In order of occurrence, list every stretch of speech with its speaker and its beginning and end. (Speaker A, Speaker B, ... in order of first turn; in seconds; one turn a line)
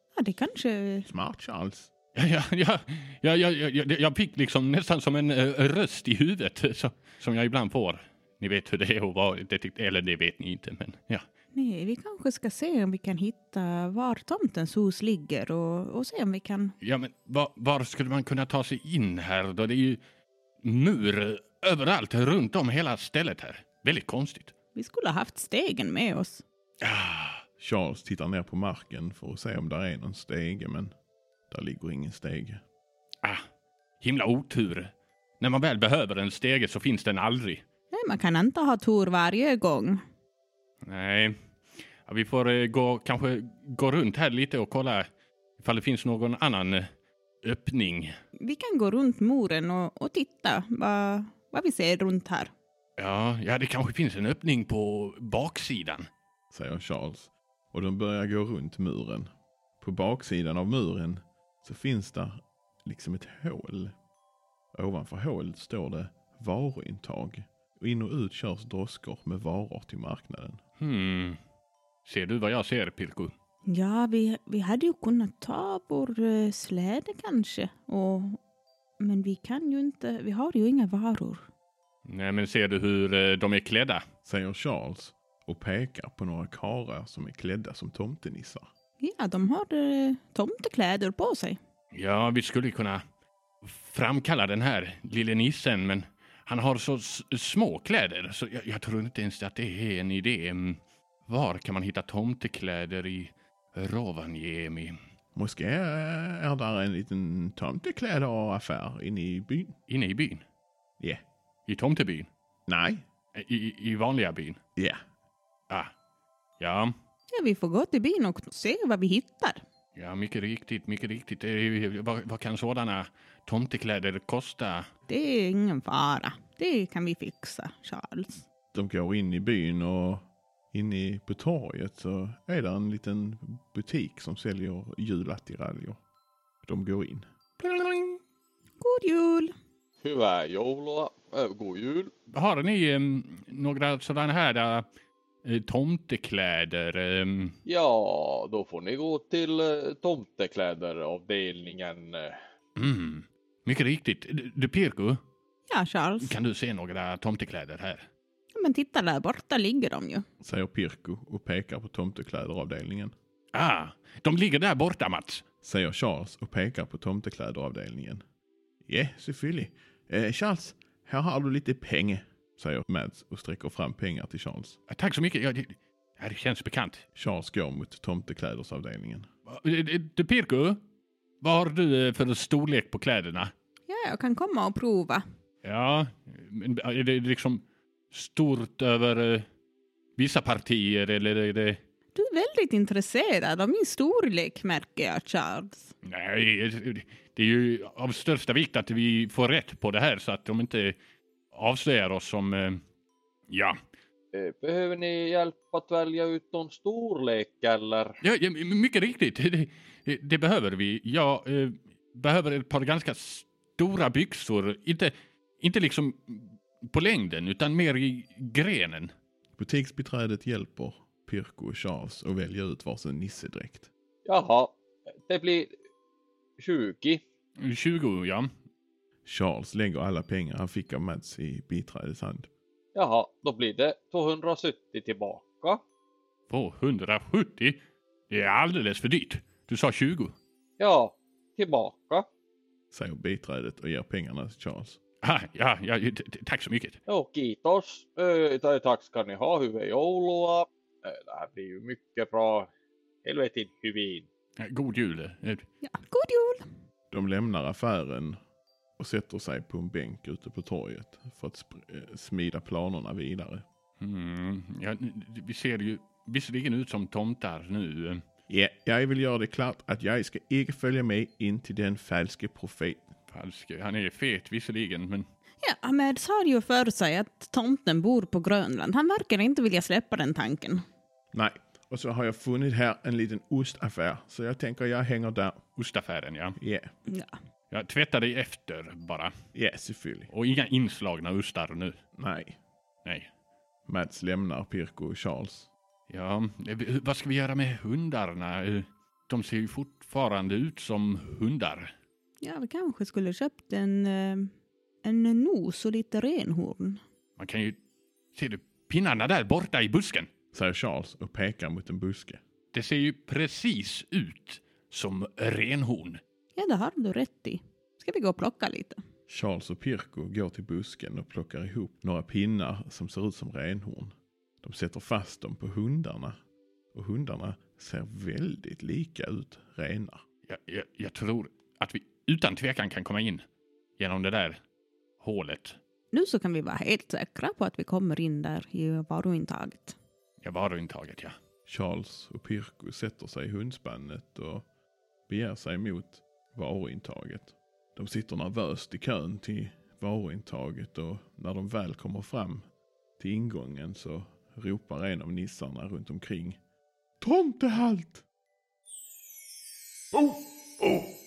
Speaker A: 0.1-1.1
Speaker B: 1.1-1.9
Speaker C: 2.1-11.2
Speaker A: 11.5-16.7
Speaker C: 16.8-20.0
Speaker C: 20.6-24.5
Speaker A: 24.7-26.4
Speaker C: 26.8-27.4
Speaker B: 27.6-30.9
Speaker B: 31.5-32.6
Speaker C: 34.0-37.6
Speaker A: 37.9-40.0
Speaker C: 40.8-41.3
Speaker C: 42.0-45.0
Speaker C: 45.6-46.9
Speaker C: 47.4-48.1
Speaker A: 48.4-52.5
Speaker C: 53.0-56.1
Speaker B: 56.5-63.9
Speaker B: 64.7-70.6
Speaker C: 70.8-71.4
Speaker C: 72.0-73.3
Speaker A: 73.7-78.4
Speaker A: 79.0-81.5
Speaker C: 82.0-84.0
Speaker B: 84.2-88.7
Speaker A: 89.0-91.6
Speaker C: 91.9-93.0
Speaker C: 93.6-105.0
Speaker B: 105.3-109.7
Speaker C: 109.9-110.4
Speaker C: 111.7-112.3
Speaker B: 112.7-113.0
Speaker C: 113.3-114.6
Speaker C: 116.6-116.9
Speaker A: 117.3-119.6
Speaker C: 120.0-124.8
Speaker A: 125.1-128.4
Speaker B: 128.7-136.0
Speaker B: 136.6-137.2
Speaker C: 137.6-138.2
Speaker A: 138.8-139.5
Speaker D: 140.0-142.1
Speaker C: 142.3-144.8
Speaker C: 145.4-147.6
Speaker D: 147.7-152.4
Speaker C: 152.8-155.2
Speaker A: 155.7-156.3
Speaker C: 156.2-158.1
Speaker A: 158.5-160.2
Speaker B: 160.4-163.1
Speaker C: 163.5-165.4
Speaker B: 165.6-168.2
Speaker B: 168.8-174.8
Speaker C: 174.9-177.0
Speaker B: 177.1-179.3
Speaker C: 179.5-180.8
Speaker C: 181.4-183.5
Speaker A: 183.9-185.2
Speaker C: 185.6-189.4
Speaker C: 190.2-191.8
Speaker A: 192.1-195.9
Speaker C: 196.0-201.0
Speaker C: 201.5-202.8
Speaker C: 203.5-203.8
Speaker D: 204.3-208.2
Speaker C: 208.2-219.1
Speaker B: 219.6-223.9
Speaker D: 224.2-224.7
Speaker D: 225.3-225.7
Speaker D: 226.6-227.2
Speaker C: 227.6-228.5
Speaker B: 229.2-232.5
Speaker D: 232.9-235.8
Speaker C: 236.5-240.3
Speaker D: 240.8-242.3
Speaker B: 242.9-245.0
Speaker C: 245.2-247.0
Speaker D: 247.1-252.7
Speaker D: 253.2-254.2
Speaker C: 254.6-255.6
Speaker A: 255.8-256.6
Speaker B: 257.1-258.4
Speaker B: 259.0-263.6
Speaker C: 264.0-268.2
Speaker B: 268.5-273.1
Speaker C: 273.3-275.2
Speaker A: 275.6-280.8
Speaker B: 281.3-285.6
Speaker C: 285.8-286.6
Speaker B: 286.6-286.9
Speaker A: 287.1-287.3
Speaker C: 287.7-289.3
Speaker B: 289.5-290.3
Speaker C: 290.3-292.0
Speaker B: 292.1-292.6
Speaker C: 293.0-293.3
Speaker B: 293.9-295.7
Speaker C: 296.1-301.9
Speaker A: 302.4-304.5
Speaker A: 305.0-307.0
Speaker C: 307.4-307.8
Speaker C: 308.3-310.3
Speaker B: 310.5-312.4
Speaker C: 312.7-316.2
Speaker A: 316.5-319.0
Speaker B: 319.3-326.4
Speaker B: 326.9-330.2
Speaker C: 330.5-333.4
Speaker C: 334.0-334.6
Speaker C: 335.2-335.8
Speaker A: 336.1-339.9
Speaker C: 340.4-341.3
Speaker B: 341.6-344.6
Speaker B: 345.3-352.6
Speaker B: 353.2-356.6
Speaker B: 357.2-358.2